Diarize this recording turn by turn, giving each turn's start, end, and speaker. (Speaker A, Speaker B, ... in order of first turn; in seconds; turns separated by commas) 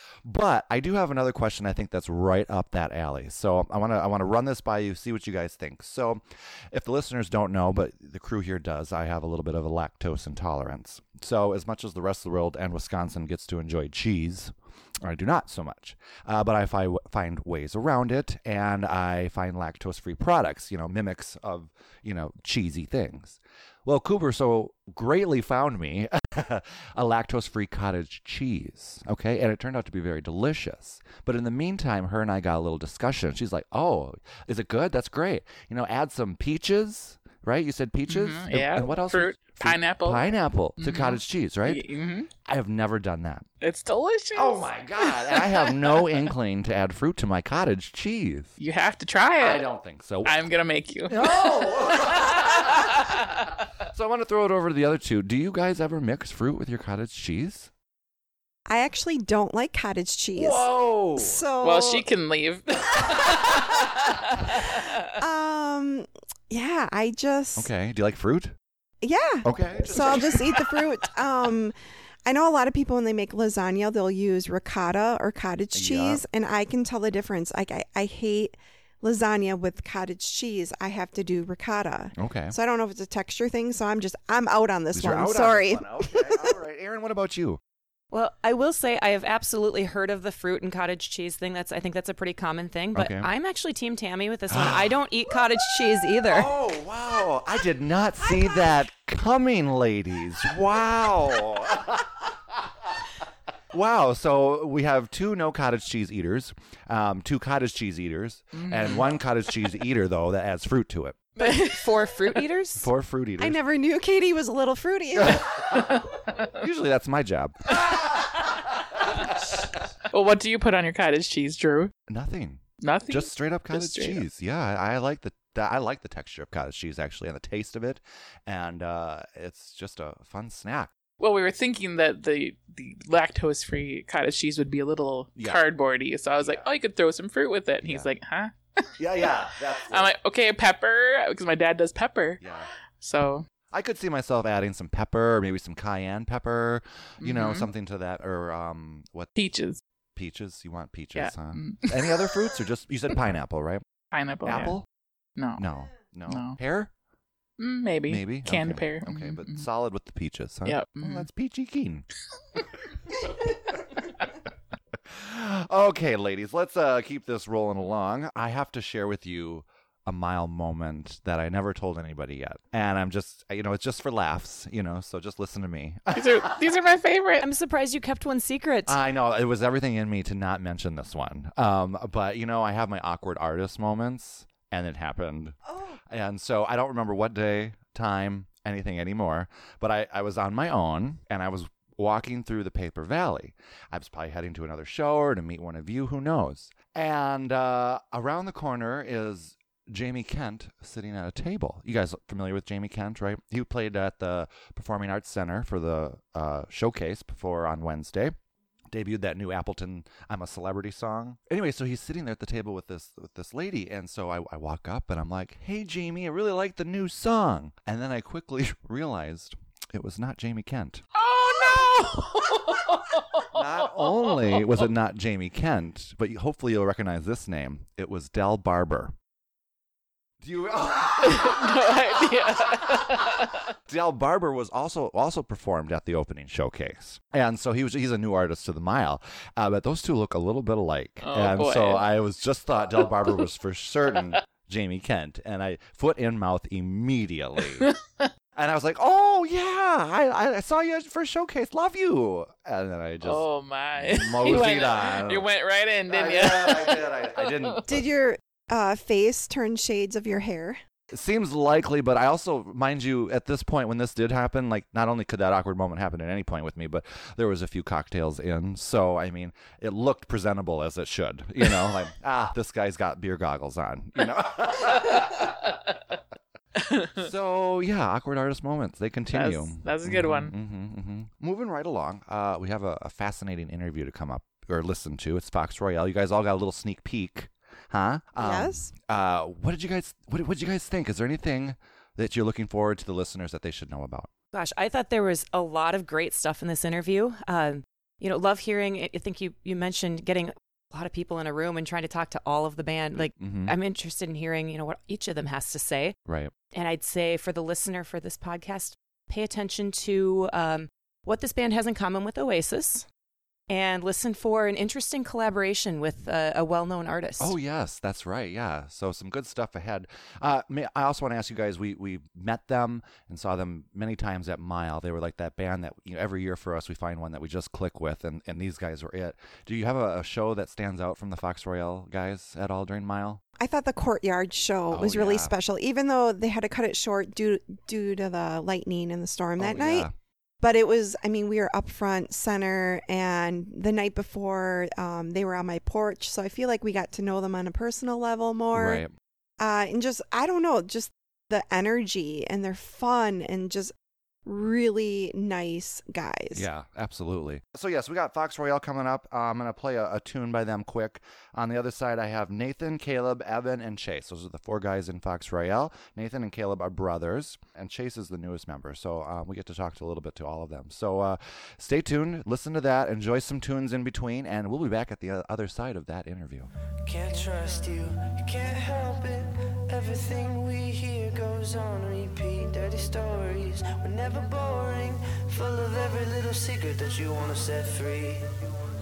Speaker A: 0.2-41.9, Speaker B: 38.1-40.2, Speaker B: 40.8-42.3, Speaker A: 42.4-43.5, Speaker B: 43.6-46.2, Speaker A: 44.3-48.5, Speaker B: 48.6-49.6, Speaker A: 49.4-50.4, Speaker B: 50.2-53.1, Speaker A: 51.1-52.9, Speaker A: 53.9-57.7, Speaker C: 58.7-62.0, Speaker A: 60.4-61.4, Speaker B: 61.6-64.8, Speaker C: 65.2-67.7, Speaker A: 67.5-68.5, Speaker C: 69.0-71.7, Speaker A: 69.4-70.6, Speaker C: 72.2-86.6, Speaker A: 75.7-76.2, Speaker A: 82.2-82.5, Speaker A: 84.9-87.6, Speaker D: 88.1-96.5, Speaker A: 92.9-93.3, Speaker A: 94.5-94.9, Speaker A: 96.3-102.1, Speaker A: 103.7-111.2, Speaker B: 108.5-109.1, Speaker D: 111.4-112.9, Speaker A: 112.8-113.6, Speaker C: 113.4-115.5, Speaker A: 115.2-115.8, Speaker A: 116.5-118.0, Speaker B: 117.9-118.2, Speaker B: 120.1-121.9, Speaker A: 122.1-130.9, Speaker B: 122.8-124.2, Speaker B: 131.2-138.8, Speaker A: 135.3-135.6, Speaker A: 136.4-136.7, Speaker A: 137.8-138.1, Speaker A: 139.0-140.1, Speaker B: 139.9-142.4, Speaker A: 142.4-142.7, Speaker B: 143.0-143.4, Speaker A: 143.7-149.3, Speaker B: 147.2-147.7, Speaker B: 149.3-149.8, Speaker A: 150.2-153.8, Speaker B: 151.1-152.3, Speaker B: 154.1-154.8, Speaker A: 154.4-154.8, Speaker B: 155.3-155.6, Speaker A: 155.6-156.9, Speaker B: 156.3-156.6, Speaker B: 157.6-159.7, Speaker A: 158.1-162.1, Speaker B: 160.6-161.3, Speaker A: 165.1-176.7, Speaker B: 176.1-177.4, Speaker D: 177.4-179.0, Speaker A: 178.9-185.6, Speaker A: 186.1-208.3, Speaker A: 208.9-221.1, Speaker B: 221.1-224.8, Speaker A: 223.5-229.1, Speaker A: 230.4-231.7, Speaker B: 231.2-233.6, Speaker A: 233.9-247.8, Speaker B: 241.2-242.1, Speaker B: 247.8-248.3, Speaker A: 248.6-255.4, Speaker B: 253.2-257.8, Speaker A: 256.1-258.0, Speaker C: 257.9-260.8, Speaker A: 261.1-275.4, Speaker A: 277.1-294.3, Speaker B: 279.3-280.5, Speaker C: 288.4-288.9, Speaker D: 294.5-306.2, Speaker A: 303.4-303.7, Speaker A: 306.2-306.5, Speaker D: 306.7-313.1, Speaker D: 313.7-317.5, Speaker A: 317.4-333.4, Speaker C: 333.6-340.1, Speaker A: 334.9-335.5, Speaker A: 339.6-340.1, Speaker C: 340.6-349.0, Speaker A: 348.7-349.1, Speaker C: 349.6-353.9, Speaker C: 354.4-356.7, Speaker A: 356.5-376.7, Speaker E: 377.0-388.6